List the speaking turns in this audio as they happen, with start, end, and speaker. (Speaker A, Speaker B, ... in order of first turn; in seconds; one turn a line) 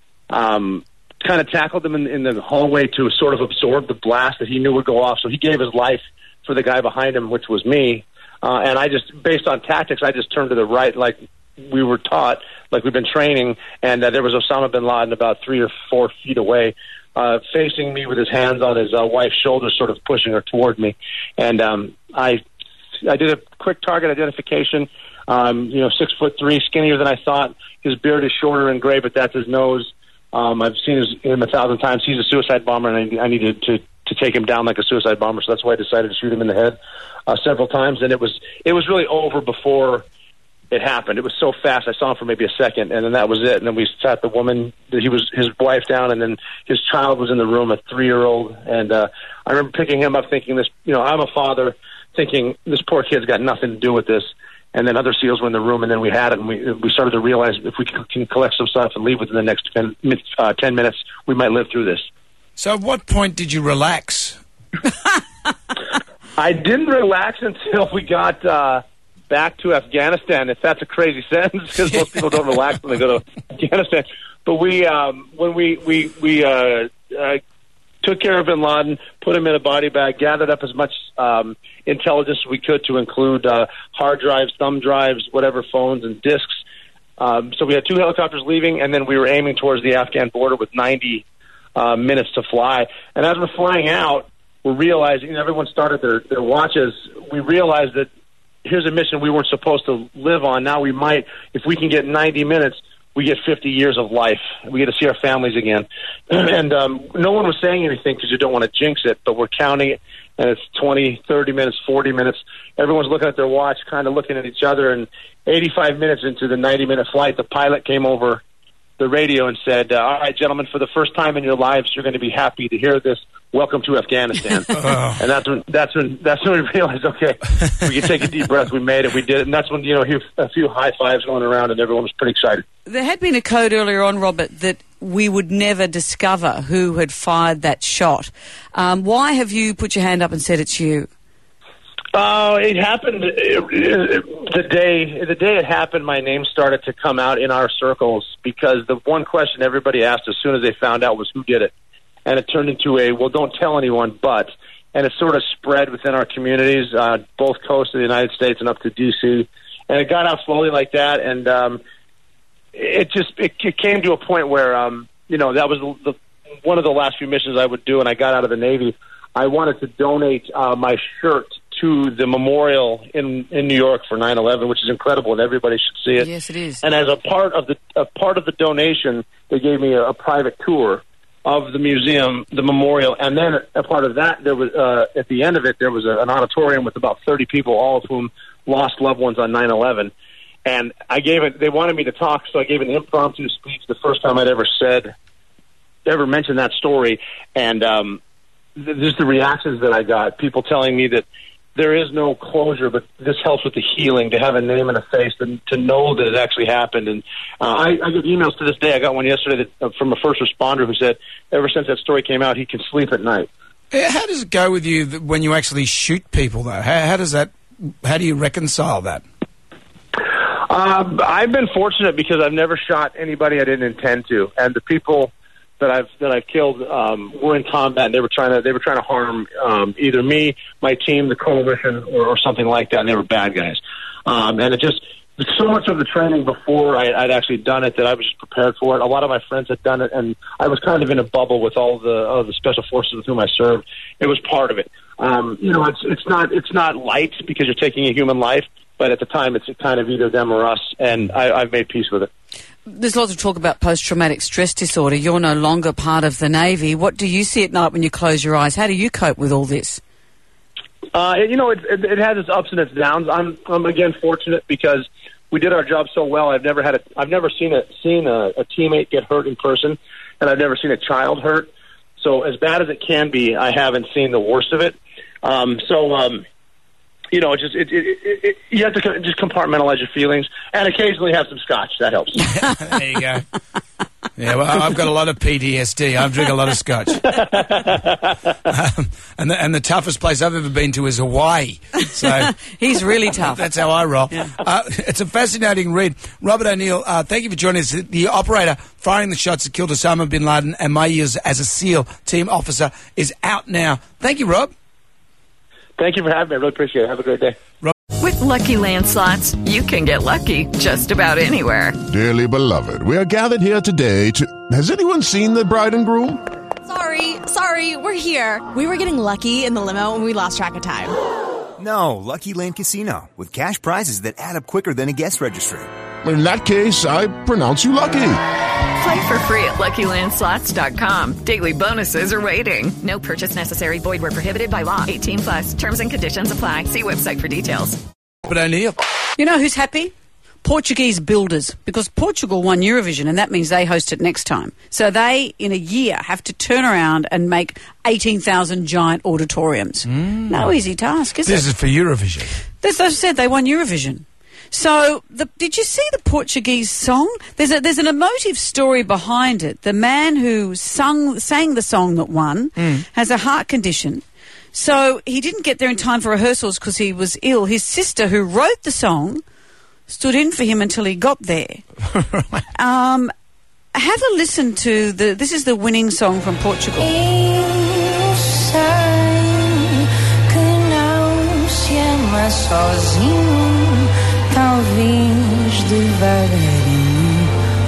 Speaker A: 0.3-22.4
Speaker A: 23.0-40.0
Speaker A: 40.7-62.0
Speaker B: 62.6-64.4
Speaker A: 66.4-77.4
Speaker A: 78.0-86.6
Speaker A: 87.2-91.2
Speaker A: 91.8-98.1
Speaker A: 98.6-118.4
Speaker A: 119.0-132.6
Speaker B: 124.7-125.2
Speaker C: 132.8-141.1
Speaker A: 142.1-151.7
Speaker A: 152.2-161.8
Speaker A: 162.7-176.3
Speaker C: 176.2-176.8
Speaker A: 176.8-190.1
Speaker A: 190.6-195.1
Speaker A: 196.1-198.2
Speaker A: 198.8-213.5
Speaker B: 213.9-219.2
Speaker A: 220.3-252.3
Speaker C: 252.9-260.0
Speaker A: 261.1-276.4
Speaker A: 277.3-282.4
Speaker B: 282.5-283.4
Speaker B: 284.4-287.2
Speaker A: 287.3-288.1
Speaker B: 288.7-292.5
Speaker C: 292.2-293.6
Speaker B: 293.3-304.7
Speaker A: 306.0-307.6
Speaker D: 308.2-312.0
Speaker E: 312.1-316.4
Speaker F: 316.9-321.1
Speaker G: 321.8-325.9
Speaker E: 326.2-328.4
Speaker D: 329.0-338.0
Speaker B: 338.4-339.0
Speaker C: 339.4-340.1
Speaker C: 340.6-351.6
Speaker B: 350.1-350.7
Speaker B: 351.4-352.5
Speaker C: 352.8-369.4
Speaker B: 362.8-363.0
Speaker C: 370.1-371.8
Speaker B: 372.1-372.6
Speaker C: 372.7-373.3
Speaker C: 373.9-377.1
Speaker H: 377.2-379.6
Speaker H: 380.5-384.0
Speaker H: 384.5-387.3